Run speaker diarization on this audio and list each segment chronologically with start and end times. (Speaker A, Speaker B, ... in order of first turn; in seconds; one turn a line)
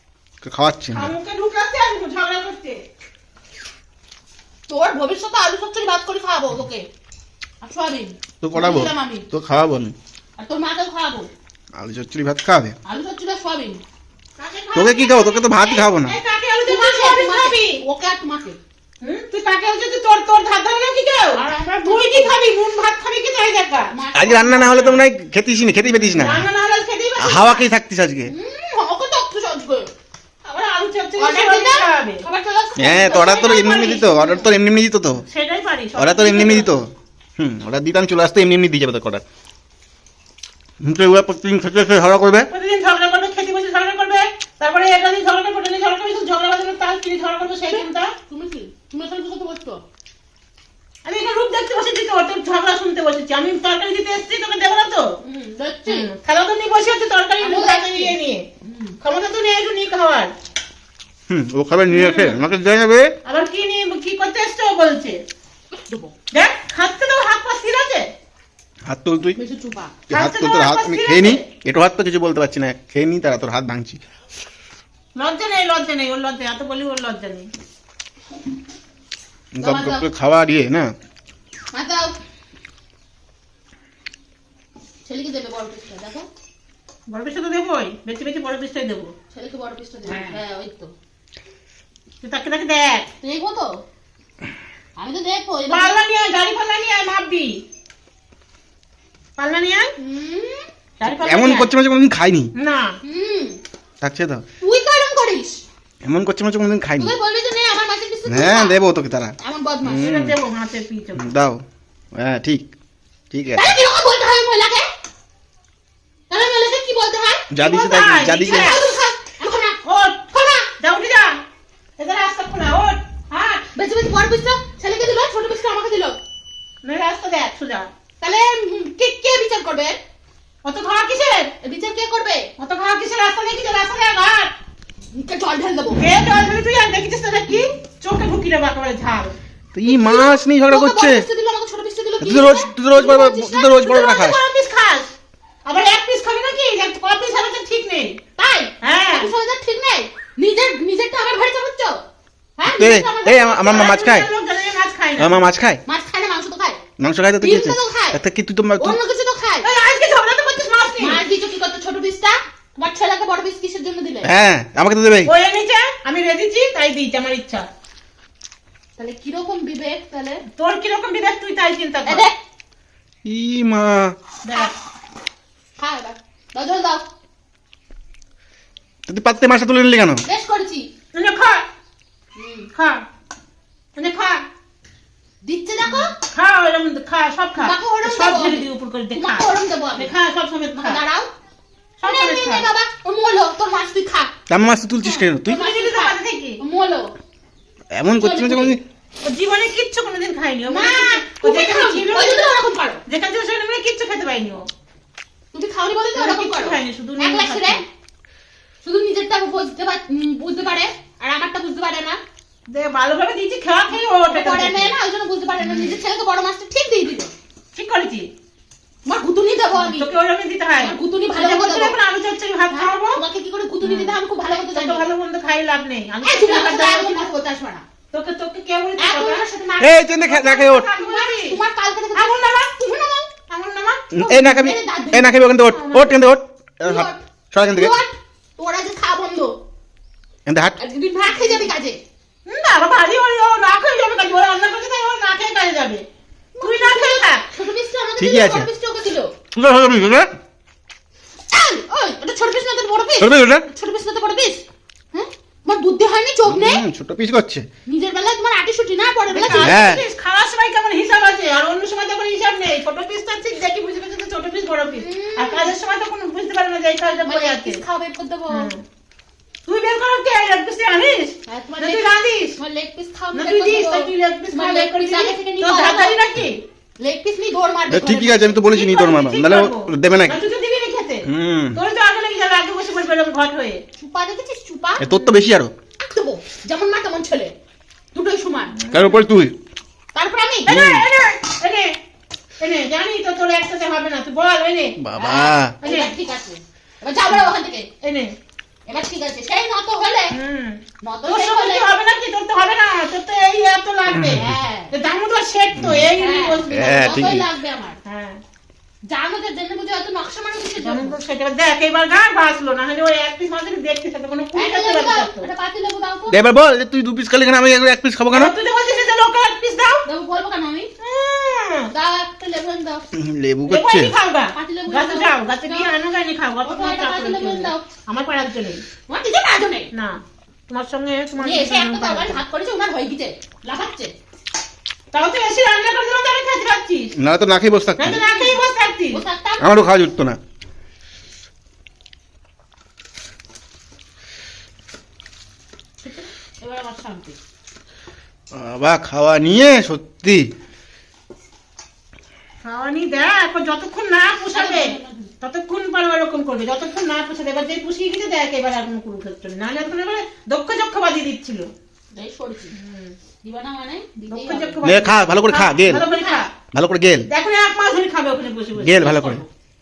Speaker A: 0.4-1.1
Speaker B: 0.9-2.8
Speaker C: 4.7-6.9
Speaker C: 7.6-9.3
Speaker A: 8.4-9.9
Speaker C: 10.4-11.3
Speaker A: 11.8-12.8
Speaker C: 12.9-13.8
Speaker B: 14.4-17.8
Speaker A: 14.8-16.2
Speaker C: 16.6-18.6
Speaker B: 19.0-23.9
Speaker C: 21.3-22.4
Speaker C: 23.9-24.8
Speaker A: 24.1-26.5
Speaker B: 24.5-25.0
Speaker B: 26.1-27.7
Speaker A: 27.2-28.3
Speaker C: 28.3-29.9
Speaker B: 30.4-32.2
Speaker C: 31.2-34.5
Speaker A: 32.8-35.2
Speaker B: 33.2-34.0
Speaker B: 35.3-36.8
Speaker A: 36.0-39.2
Speaker A: 40.8-42.5
Speaker B: 42.5-48.1
Speaker C: 47.5-49.8
Speaker B: 51.0-55.1
Speaker C: 55.2-56.1
Speaker B: 55.9-58.5
Speaker C: 57.4-59.0
Speaker B: 59.0-60.3
Speaker A: 61.3-63.1
Speaker B: 61.9-62.4
Speaker B: 63.2-65.2
Speaker C: 65.8-66.1
Speaker B: 66.3-68.1
Speaker A: 68.9-69.4
Speaker C: 69.3-69.9
Speaker A: 70.1-74.0
Speaker B: 70.1-71.5
Speaker B: 75.2-77.5
Speaker A: 79.5-80.9
Speaker C: 79.6-80.0
Speaker C: 81.7-82.2
Speaker C: 85.0-86.3
Speaker B: 87.1-89.1
Speaker C: 89.3-90.9
Speaker B: 90.1-90.4
Speaker B: 92.2-93.1
Speaker C: 93.2-93.7
Speaker C: 95.0-95.9
Speaker B: 95.7-97.6
Speaker B: 99.4-99.9
Speaker C: 100.0-100.7
Speaker B: 101.0-101.7
Speaker A: 101.0-102.5
Speaker B: 102.5-103.0
Speaker C: 103.0-103.6
Speaker A: 104.0-104.4
Speaker C: 104.6-105.6
Speaker A: 106.0-107.2
Speaker C: 107.0-108.8
Speaker A: 108.3-110.4
Speaker C: 109.4-110.1
Speaker B: 109.8-111.2
Speaker A: 111.2-111.6
Speaker A: 112.1-112.7
Speaker A: 113.3-113.7
Speaker C: 113.5-114.9
Speaker C: 116.3-117.5
Speaker A: 117.5-118.7
Speaker B: 117.6-118.8
Speaker C: 118.3-120.7
Speaker B: 119.8-120.2
Speaker B: 120.8-121.4
Speaker B: 122.0-123.0
Speaker C: 123.3-126.2
Speaker B: 126.8-127.9
Speaker C: 128.2-130.0
Speaker B: 130.6-131.5
Speaker C: 131.6-132.5
Speaker B: 132.6-134.5
Speaker C: 135.1-136.1
Speaker B: 136.0-139.3
Speaker A: 139.7-141.3
Speaker C: 139.8-143.8
Speaker A: 142.2-144.4
Speaker B: 143.6-145.1
Speaker B: 145.7-148.2
Speaker C: 148.4-152.0
Speaker B: 148.8-149.3
Speaker C: 152.6-153.9
Speaker A: 152.7-154.3
Speaker B: 153.6-155.4
Speaker A: 155.2-155.8
Speaker C: 155.9-156.8
Speaker A: 157.0-159.0
Speaker C: 157.4-158.2
Speaker C: 158.8-159.7
Speaker B: 159.6-161.2
Speaker C: 161.0-164.3
Speaker A: 164.2-165.3
Speaker B: 165.2-167.7
Speaker C: 169.0-170.4
Speaker B: 170.6-172.2
Speaker C: 172.1-172.4
Speaker A: 173.2-174.2
Speaker B: 174.4-174.7
Speaker C: 175.8-177.1
Speaker A: 179.1-180.2
Speaker C: 180.2-180.9
Speaker B: 181.1-181.7
Speaker C: 182.4-182.7
Speaker B: 182.7-183.0
Speaker B: 184.0-184.4
Speaker C: 185.4-186.2
Speaker B: 186.3-191.0
Speaker C: 187.6-190.1
Speaker C: 190.7-191.3
Speaker B: 192.0-192.7
Speaker C: 192.0-194.3
Speaker A: 194.5-195.6
Speaker C: 195.0-197.2
Speaker B: 195.5-196.6
Speaker A: 197.9-198.8
Speaker C: 198.2-198.8
Speaker B: 199.2-204.7
Speaker C: 200.7-203.0
Speaker C: 205.5-207.8
Speaker B: 206.2-207.8
Speaker C: 208.8-212.2
Speaker B: 212.7-214.9
Speaker C: 214.2-217.3
Speaker B: 215.6-216.0
Speaker B: 217.7-218.3
Speaker C: 219.1-220.1
Speaker B: 219.8-223.2
Speaker C: 220.8-222.0
Speaker C: 222.7-225.1
Speaker B: 223.8-227.3
Speaker C: 226.2-227.8
Speaker B: 228.1-229.4
Speaker C: 229.0-230.0
Speaker A: 229.8-230.9
Speaker B: 230.2-231.6
Speaker C: 230.9-233.3
Speaker B: 232.2-232.7
Speaker B: 233.5-234.0
Speaker A: 234.1-237.9
Speaker C: 234.2-235.4
Speaker B: 235.7-236.2
Speaker C: 236.8-239.6
Speaker A: 240.5-240.8
Speaker C: 240.8-242.0
Speaker B: 241.3-241.7
Speaker B: 242.5-246.1
Speaker C: 246.5-249.3
Speaker B: 246.6-247.4
Speaker A: 248.2-248.7
Speaker A: 249.6-250.3
Speaker C: 251.5-254.6
Speaker A: 253.2-253.7
Speaker C: 255.1-256.8
Speaker A: 256.5-257.7
Speaker C: 257.9-259.8
Speaker B: 259.3-267.8
Speaker A: 259.5-260.0
Speaker C: 264.9-265.7
Speaker C: 267.2-268.7
Speaker B: 268.5-268.8
Speaker B: 269.7-272.6
Speaker C: 271.5-276.2
Speaker B: 273.3-276.6
Speaker C: 277.0-278.6
Speaker A: 277.9-280.4
Speaker B: 278.6-283.8
Speaker A: 281.2-281.8
Speaker C: 284.0-285.1
Speaker A: 285.0-285.7
Speaker B: 285.0-285.4
Speaker C: 286.0-287.6
Speaker C: 288.1-288.8
Speaker B: 288.8-289.2
Speaker A: 288.9-289.6
Speaker C: 290.1-290.7
Speaker B: 290.6-291.9
Speaker A: 290.7-291.1
Speaker B: 292.6-295.0
Speaker A: 295.0-295.8
Speaker C: 295.1-297.9
Speaker B: 295.8-296.1
Speaker B: 298.0-298.3
Speaker C: 298.9-300.4
Speaker B: 300.3-307.4
Speaker C: 301.0-301.9
Speaker A: 304.1-304.5
Speaker C: 304.2-304.9
Speaker A: 305.8-306.1
Speaker C: 306.1-308.0
Speaker A: 306.7-307.5
Speaker B: 308.1-308.4
Speaker C: 309.1-311.1
Speaker B: 310.9-315.5
Speaker C: 314.5-316.4
Speaker A: 316.3-318.5
Speaker B: 318.3-320.0
Speaker C: 320.1-320.9
Speaker B: 321.0-321.9
Speaker C: 321.9-323.1
Speaker A: 323.1-324.1
Speaker B: 323.7-328.8
Speaker C: 324.5-325.9
Speaker C: 326.6-327.8
Speaker C: 329.1-329.9
Speaker B: 329.9-332.4
Speaker C: 331.4-334.1
Speaker B: 335.1-337.1
Speaker A: 337.2-338.2
Speaker B: 338.0-339.2
Speaker C: 338.2-339.7
Speaker A: 339.6-340.4
Speaker C: 346.0-347.4
Speaker A: 348.5-350.5
Speaker B: 352.6-361.7
Speaker C: 354.5-355.3
Speaker C: 362.1-362.7
Speaker B: 362.7-363.2
Speaker C: 363.4-364.9
Speaker B: 364.3-366.5
Speaker A: 364.8-366.1
Speaker C: 365.9-366.5
Speaker A: 366.7-367.3
Speaker B: 367.3-369.4
Speaker A: 368.8-369.4